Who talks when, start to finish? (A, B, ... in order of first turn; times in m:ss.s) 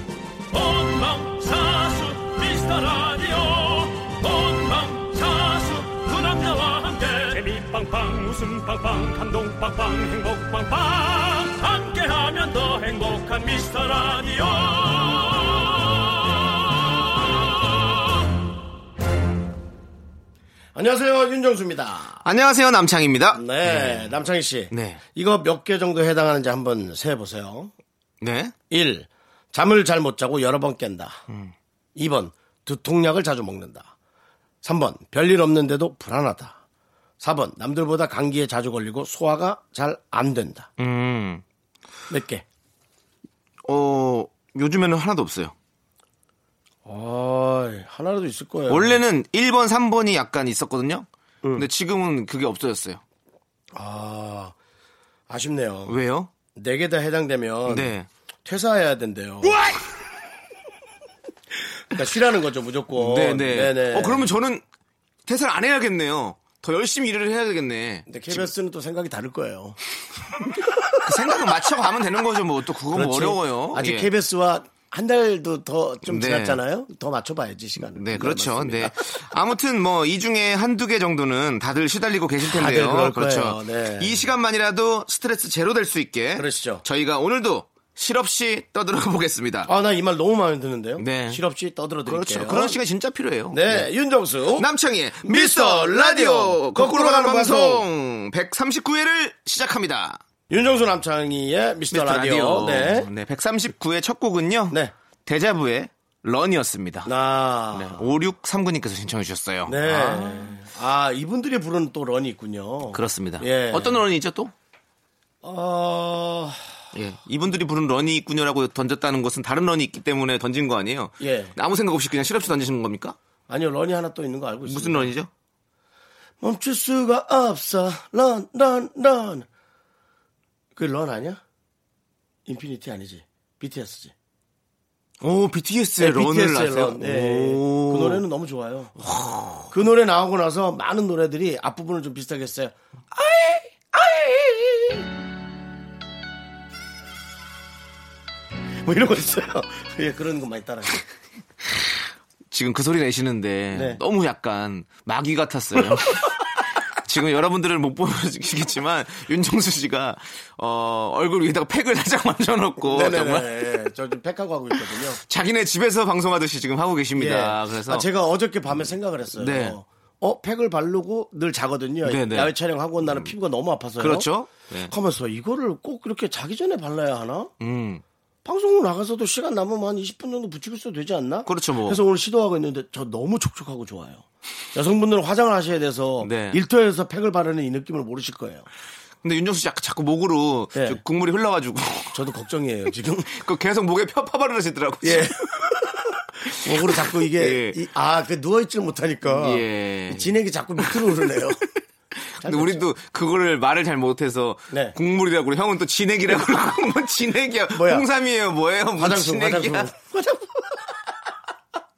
0:00.5-0:18.0 A
0:20.7-0:22.2 B
0:22.2-0:24.2 C
0:23.3-0:27.7 B
0:24.7-0:25.0 C
0:28.2-0:28.5 C
0:28.7-0:31.2 B
0:31.3-0:31.5 C
0:32.0-0:33.9 B
0:34.6-0:36.6 B
0:37.2-0:40.7 B
0:40.8-0:41.4 C
0:42.1-0:42.4 B
0:43.6-0:45.5 C
0:46.8-0:49.0 B
0:48.7-0:53.0 C
0:53.7-0:54.5 B
0:55.3-0:56.0 B
0:55.9-0:56.3 C
0:56.5-0:57.9 B
0:57.7-0:58.1 C
0:58.4-0:59.6 B
0:59.4-0:59.8 C
1:01.9-1:04.3 B
1:03.0-1:04.6 C
1:05.3-1:08.5 C
1:08.1-1:09.8 B
1:10.6-1:10.9 B
1:11.0-1:14.1 C
1:12.9-1:19.0 B
1:16.0-1:16.6 C
1:17.9-1:29.7 C
1:22.4-1:24.2 B
1:26.4-1:26.8 B
1:29.7-1:32.8 B
1:31.0-1:31.4 C
1:32.0-1:33.9 C
1:33.5-1:34.7 B
1:34.5-1:40.2 C
1:35.2-1:37.8 B
1:40.5-1:43.1 B
1:41.9-1:47.1 C
1:47.0-1:48.1 B
1:47.7-1:50.6 C
1:49.7-1:54.0 B
1:52.9-1:54.5 C
1:55.4-1:56.8 B
1:56.9-2:03.2 C
2:01.2-2:01.5 B
2:03.5-2:05.1 B
2:04.7-2:05.3 C
2:06.4-2:09.5 B
2:10.7-2:11.4 B
2:12.4-2:14.1 B
2:15.2-2:18.2 C
2:16.0-2:19.0 B
2:19.0-2:19.7 C
2:19.7-2:25.0 B
2:28.8-2:31.0 B
2:32.5-2:36.3 C
2:33.7-2:34.0 B
2:37.0-2:43.7 C
2:42.8-2:45.2 B
2:45.2-2:48.0 C
2:47.1-2:54.3 B
2:49.4-2:49.8 C
2:52.0-2:53.3 C
2:54.0-2:54.9 C
2:54.9-2:57.5 B
2:57.6-2:58.0 C
2:58.4-3:08.7 B
3:01.4-3:02.0 C
3:06.2-3:06.6 C
3:09.2-3:12.2 C
3:10.7-3:11.0 B
3:12.1-3:13.3 B
3:13.3-3:15.5 C
3:15.0-3:21.7 B
3:16.4-3:17.8 C
3:19.2-3:21.0 C
3:22.2-3:29.9 C
3:22.4-3:22.8 B
3:24.7-3:25.0 B
3:27.7-3:28.1 B
3:29.0-3:30.9 B